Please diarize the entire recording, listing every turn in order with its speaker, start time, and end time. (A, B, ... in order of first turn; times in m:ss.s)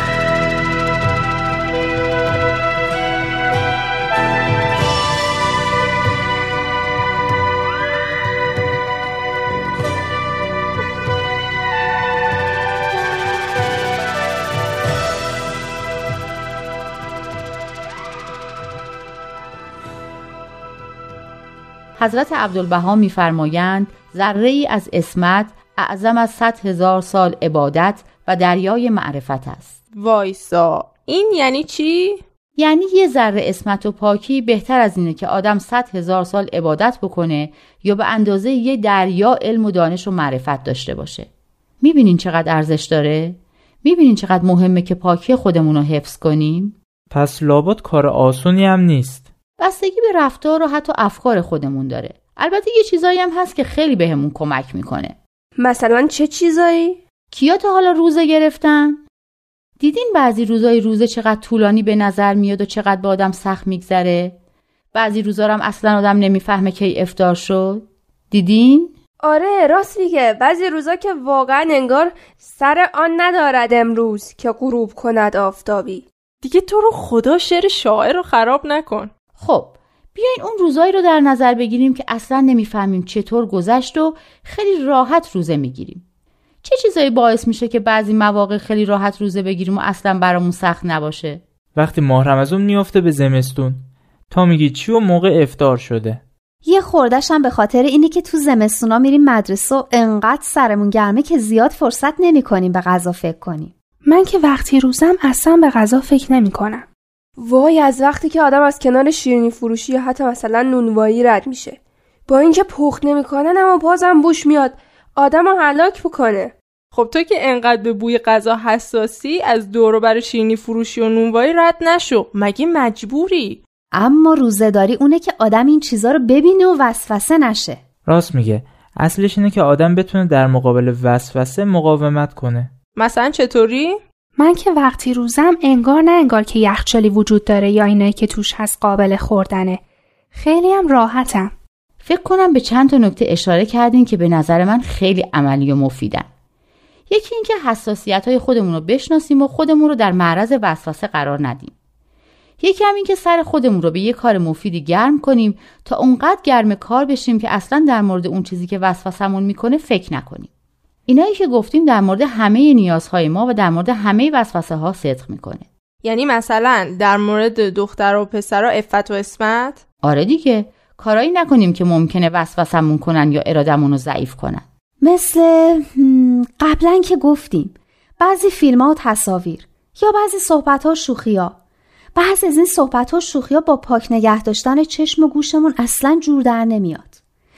0:22.0-0:29.8 A
0:29.9-0:32.2 B
0:32.6-0:41.3 A
0:41.8-0:46.8 A
0:47.1-0:49.3 C
0:49.6-0:55.2 A
0:55.6-0:57.0 D
0:57.3-0:59.0 A
0:59.8-1:04.4 A
1:04.9-1:08.9 A
1:09.2-1:16.1 D
1:16.4-1:19.1 B
1:19.4-1:26.0 A
1:26.6-1:31.4 A
1:31.7-1:36.2 C
1:36.6-1:43.7 E
1:44.0-1:46.8 F
1:47.4-1:56.5 D
1:56.9-2:03.6 B
2:03.9-2:07.8 E
2:08.0-2:12.7 C
2:13.0-2:14.0 B
2:14.4-2:19.8 F
2:20.3-2:21.5 F
2:22.0-2:26.3 A
2:27.1-2:31.7 A
2:32.6-2:40.5 A
2:41.1-2:45.7 A
2:46.0-2:49.8 B
2:50.0-2:54.6 A
2:55.0-3:01.6 E
3:02.1-3:07.2 E